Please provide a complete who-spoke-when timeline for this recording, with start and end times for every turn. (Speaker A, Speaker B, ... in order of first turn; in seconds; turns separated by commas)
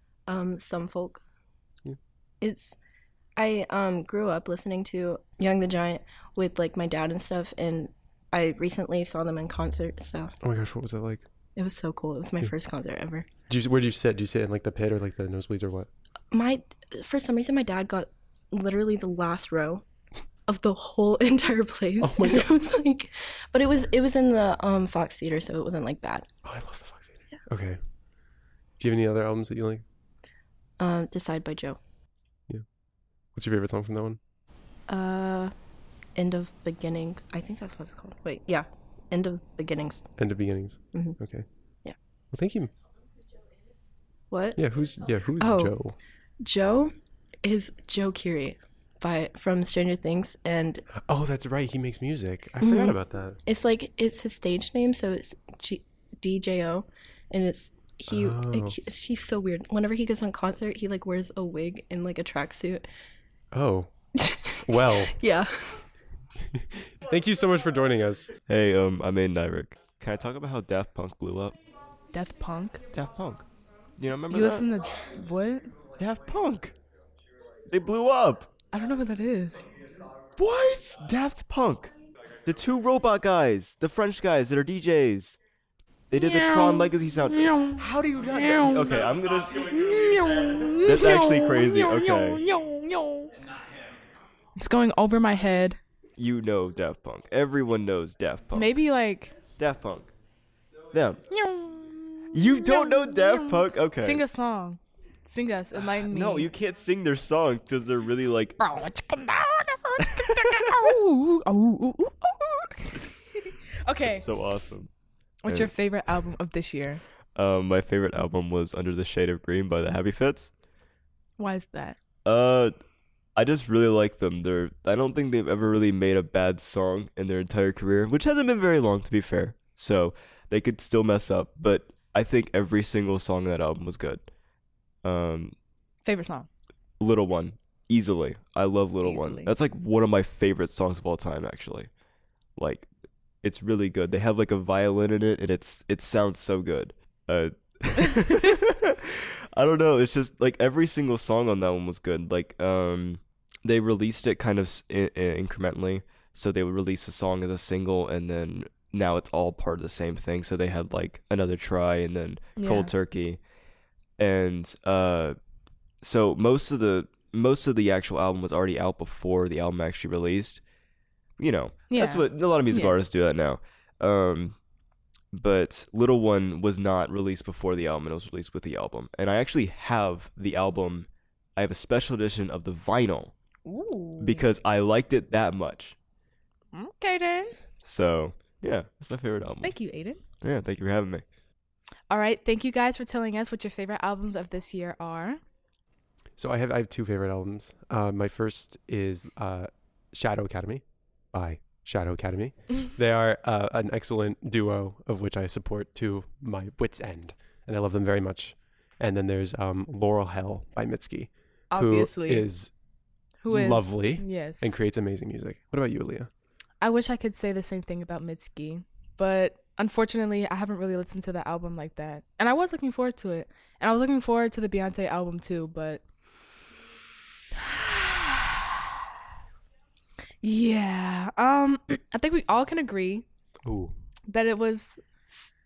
Speaker A: 0.3-1.2, Speaker A: 2.4-2.8, Speaker A: 3.4-10.3, Speaker B: 10.4-11.2, Speaker A: 11.6-13.2, Speaker B: 13.5-15.9, Speaker A: 16.3-19.8, Speaker A: 20.5-26.3, Speaker B: 22.0-22.5, Speaker B: 26.4-27.8, Speaker B: 28.8-29.8, Speaker A: 30.8-31.8, Speaker B: 33.3-34.2, Speaker A: 34.9-35.5, Speaker A: 36.1-40.0, Speaker B: 40.2-41.5, Speaker B: 42.3-42.7, Speaker A: 44.3-44.6, Speaker B: 44.5-46.0, Speaker A: 45.4-45.7, Speaker A: 46.4-46.9, Speaker A: 47.4-50.8, Speaker B: 50.9-53.4, Speaker A: 53.5-62.9, Speaker B: 58.1-58.8, Speaker B: 63.5-63.9, Speaker B: 64.6-65.2, Speaker A: 65.2-65.8, Speaker B: 67.0-68.3, Speaker C: 68.5-71.6, Speaker D: 72.1-72.8, Speaker C: 72.9-73.5, Speaker C: 74.0-74.7, Speaker D: 74.3-75.8, Speaker C: 76.0-76.7, Speaker C: 77.7-78.5, Speaker D: 78.7-79.7, Speaker C: 80.4-85.4, Speaker C: 86.1-90.2, Speaker D: 88.5-88.8, Speaker D: 89.7-93.3, Speaker C: 90.8-92.5, Speaker D: 94.5-95.8, Speaker C: 96.2-98.8, Speaker D: 98.5-99.4, Speaker C: 99.5-100.1, Speaker C: 100.9-101.2, Speaker D: 101.3-106.5, Speaker C: 102.3-104.3, Speaker C: 105.8-108.6, Speaker D: 108.6-113.2, Speaker C: 110.5-110.8, Speaker D: 113.8-114.3, Speaker C: 114.0-114.9, Speaker D: 115.4-117.0, Speaker C: 115.5-115.7, Speaker C: 117.3-120.5, Speaker D: 121.4-122.0, Speaker C: 122.2-122.7, Speaker C: 123.3-134.3, Speaker C: 135.0-135.5, Speaker D: 136.0-136.5, Speaker C: 137.0-141.9, Speaker D: 139.0-139.5, Speaker C: 142.6-142.9, Speaker C: 143.4-163.4, Speaker D: 162.6-162.9, Speaker C: 164.2-165.4, Speaker C: 166.0-170.6, Speaker C: 171.4-174.6, Speaker D: 171.9-172.9, Speaker C: 175.3-183.3, Speaker A: 183.7-184.2, Speaker C: 184.2-185.9, Speaker D: 186.7-187.6, Speaker C: 187.8-189.8, Speaker D: 189.6-190.2, Speaker C: 190.4-191.2, Speaker D: 192.1-195.4, Speaker B: 196.4-212.7, Speaker D: 211.7-212.6, Speaker D: 213.4-214.8, Speaker B: 213.5-216.3, Speaker D: 216.8-226.0, Speaker D: 227.6-228.6, Speaker D: 230.4-233.2, Speaker B: 233.6-233.9, Speaker D: 234.3-235.0